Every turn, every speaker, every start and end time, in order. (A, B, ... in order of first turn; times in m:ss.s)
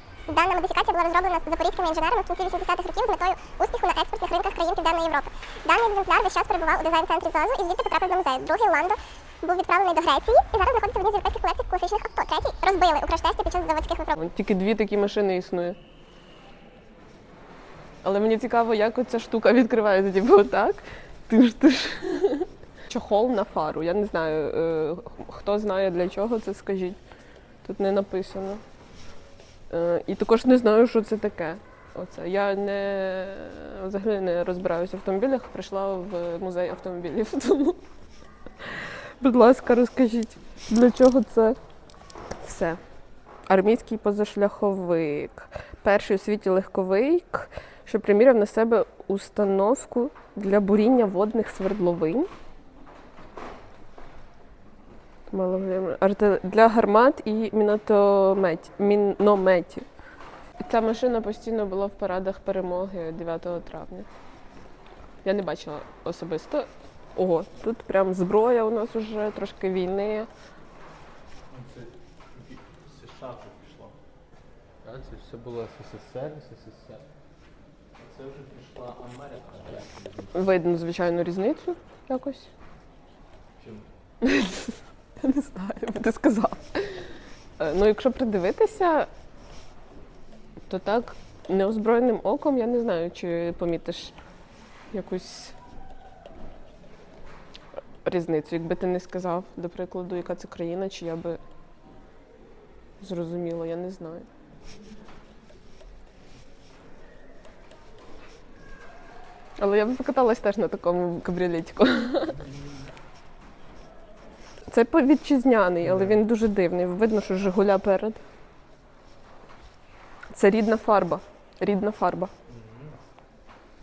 0:00.3-0:14.2 A
0:14.2-0:15.8 B
0:18.0-0:27.0 B
0:27.6-0:28.6 B
0:29.7-0:37.8 B
0:38.6-0:41.6 B
0:42.4-0:42.8 B
0:43.5-0:52.3 B
0:55.3-0:59.8 B
1:00.6-1:04.1 B
1:05.2-1:10.3 B
1:11.5-1:13.9 C
1:14.8-1:17.0 C
1:18.0-1:20.5 C
1:20.3-1:22.5 B
1:23.6-1:23.8 C
1:24.2-1:27.1 B
1:27.6-1:29.1 B
1:30.7-1:34.1 B
1:34.9-1:35.5 B
1:38.0-1:41.4 B
1:43.0-1:44.3 B
1:49.6-1:52.4 B
1:54.7-1:58.2 B
1:55.8-1:56.2 C
2:00.3-2:02.3 B
2:02.5-2:02.9 C